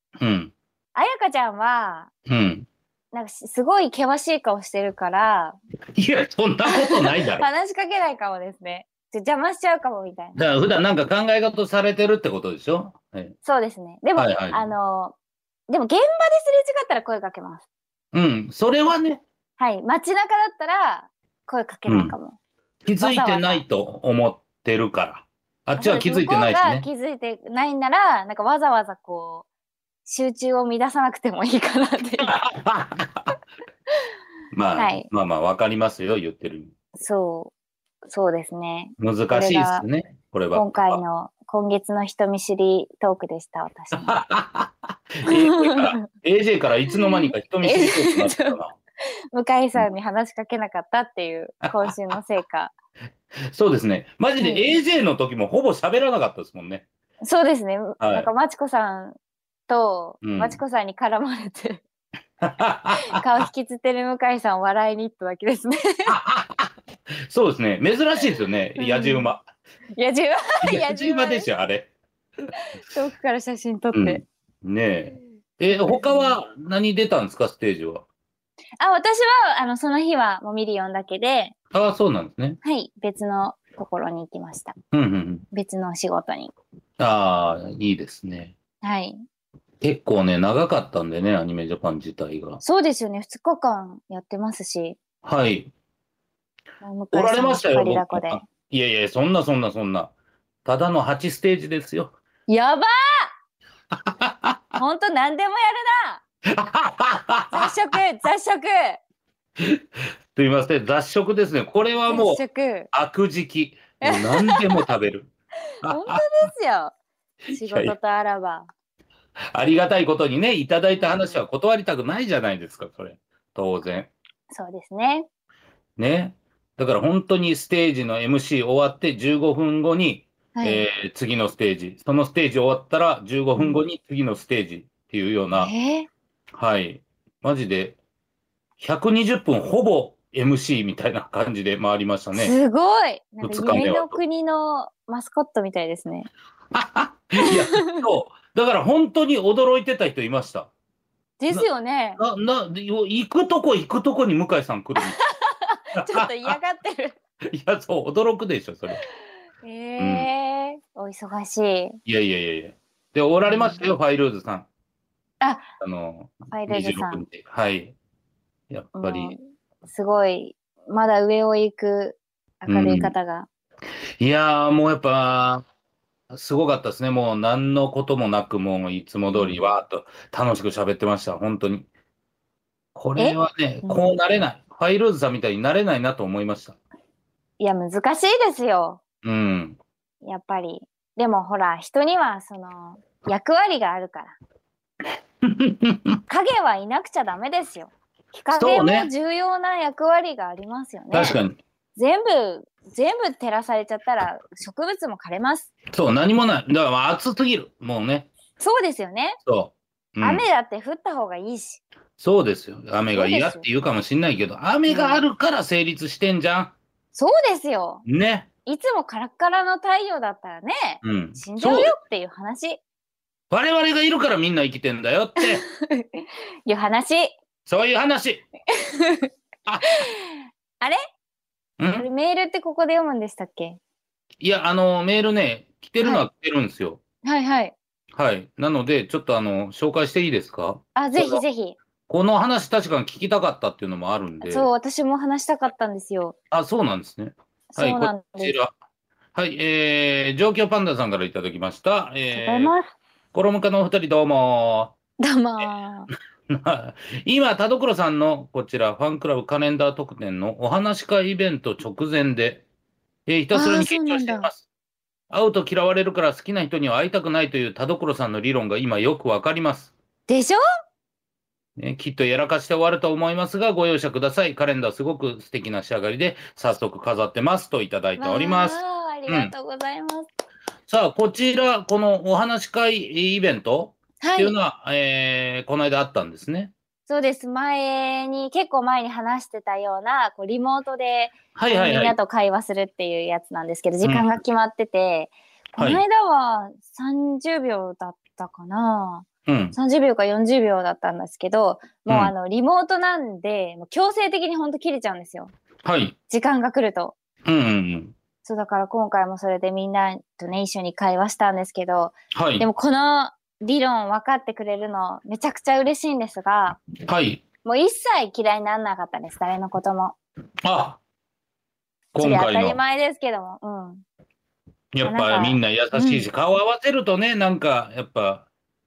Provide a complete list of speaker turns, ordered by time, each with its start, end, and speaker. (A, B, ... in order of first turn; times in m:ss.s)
0:00.2-0:00.5 A
0:00.9-0:02.1 B
0:02.3-0:02.7 A
0:03.1-0:05.6 B
0:05.9-0:07.4 A
0:06.7-0:10.4 B
0:10.4-0:13.4 A
0:13.4-0:15.2 B
0:14.2-0:14.7 A
0:15.7-0:17.6 B
0:18.1-0:19.2 A
0:19.6-0:22.4 B
0:21.9-0:22.1 A
0:22.8-0:26.9 A
0:23.0-0:23.6 B
0:25.8-0:29.4 B
0:30.0-0:32.4 B
0:32.2-0:33.3 A
0:34.5-0:36.7 A
0:34.8-0:35.1 B
0:37.0-0:37.5 B
0:38.0-0:39.8 B
0:39.0-0:41.0 A
0:40.5-0:44.2 B
0:43.9-0:48.7 A
0:45.3-0:46.1 B
0:46.9-0:48.6 B
0:49.3-0:52.7 B
0:51.6-0:51.9 A
0:53.5-0:56.8 A
0:54.4-0:54.7 B
0:57.2-0:59.2 B
0:58.0-0:58.3 A
0:59.7-1:01.8 B
1:00.2-1:00.6 A
1:02.4-1:03.5 A
1:03.1-1:06.2 B
1:06.1-1:06.7 A
1:07.3-1:09.5 A
1:08.8-1:09.3 B
1:10.0-1:11.5 B
1:10.6-1:11.9 A
1:12.6-1:14.2 B
1:13.9-1:18.0 A
1:15.7-1:16.4 B
1:18.8-1:21.5 B
1:21.7-1:22.6 A
1:22.6-1:24.8 B
1:24.9-1:25.4 A
1:25.5-1:26.5 B
1:27.0-1:28.5 A
1:28.8-1:29.2 B
1:29.8-1:32.6 A
1:32.6-1:35.0 B
1:35.2-1:35.7 A
1:36.8-1:38.4 B
1:37.1-1:40.1 A
1:40.6-1:42.2 A
1:42.5-1:43.3 B
1:43.9-1:44.8 A
1:44.8-1:46.2 B
1:46.5-1:47.8 A
1:47.5-1:49.0 B
1:49.6-1:55.3 A
1:52.1-1:52.9 B
1:54.0-1:54.6 B
1:55.8-1:56.2 A
1:55.8-1:56.9 B
1:57.5-1:57.9 A
1:57.5-1:58.7 B
1:59.5-2:04.1 A
2:01.0-2:01.4 B
2:04.5-2:05.3 B
2:06.0-2:15.7 A
2:10.5-2:10.8 B
2:15.5-2:16.1 B
2:16.5-2:18.0 A
2:18.8-2:22.5 A
2:22.3-2:26.3 B
2:23.4-2:24.2 A
2:26.7-2:30.7 A
2:27.4-2:28.1 B
2:31.4-2:32.2 B
2:32.2-2:35.2 A
2:35.0-2:37.2 B
2:35.9-2:36.6 A
2:37.5-2:39.0 A
2:39.6-2:42.0 B
2:40.0-2:40.3 A
2:42.0-2:44.7 A
2:43.4-2:43.8 B
2:45.4-2:45.7 B
2:45.8-2:47.9 A
2:46.5-2:47.2 B
2:48.7-2:49.3 A
2:48.9-2:53.5 B
2:52.7-2:53.1 A
2:54.2-2:55.6 A
2:56.3-3:01.9 A
2:59.3-2:59.6 B
3:02.9-3:06.8 A
3:03.2-3:04.1 B
3:07.6-3:09.0 B
3:09.2-3:09.8 A
3:10.2-3:14.4 B
3:15.4-3:16.2 A
3:16.3-3:21.4 B
3:18.5-3:19.1 A
3:21.1-3:21.6 A
3:22.0-3:25.7 B
3:25.9-3:28.3 A
3:28.6-3:29.4 B
3:29.4-3:30.4 A
3:30.2-3:31.8 B
3:32.2-3:36.7 A
3:33.1-3:33.6 B
3:34.9-3:35.2 B
3:37.1-3:38.0 B
3:38.0-3:38.5 A
3:38.6-3:42.8 B
3:41.0-3:41.9 A
3:43.5-3:45.6 A
3:45.4-3:47.4 B
3:47.6-3:48.4 A
3:48.7-3:49.3 B
3:49.8-3:51.0 B
3:51.8-3:52.1 A
3:52.0-3:53.8 B
3:54.4-3:57.0 A
3:56.0-3:56.2 B
3:57.2-3:57.7 B
3:58.1-4:01.4 A
4:00.9-4:01.8 B
4:02.1-4:04.7 A
4:04.4-4:06.4 B
4:06.5-4:08.7 A
4:07.7-4:08.6 B
4:09.3-4:12.7 A
4:12.3-4:12.9 B
4:13.3-4:14.9 A
4:15.2-4:16.1 B
4:16.5-4:22.6 A
4:23.3-4:24.6 A
4:23.5-4:24.5 B
4:25.3-4:29.9 A
4:30.3-4:30.6 B
4:31.8-4:39.5 A
4:38.2-4:40.3 B
4:40.9-4:46.7 A
4:44.2-4:44.6 B
4:47.1-5:05.5 B
4:51.5-4:52.2 A
4:54.0-4:54.3 A
4:55.8-4:56.0 A
4:59.4-4:59.8 A
5:02.1-5:02.3 A
5:05.8-5:06.1 A
5:06.3-5:07.2 B
5:07.4-5:08.1 A
5:08.4-5:16.8 B
5:12.3-5:12.7 A
5:17.0-5:17.4 A
5:17.6-5:20.2 B
5:20.6-5:21.0 A
5:22.1-5:22.8 A
5:22.2-5:24.0 B
5:24.9-5:28.5 A
5:25.0-5:26.3 B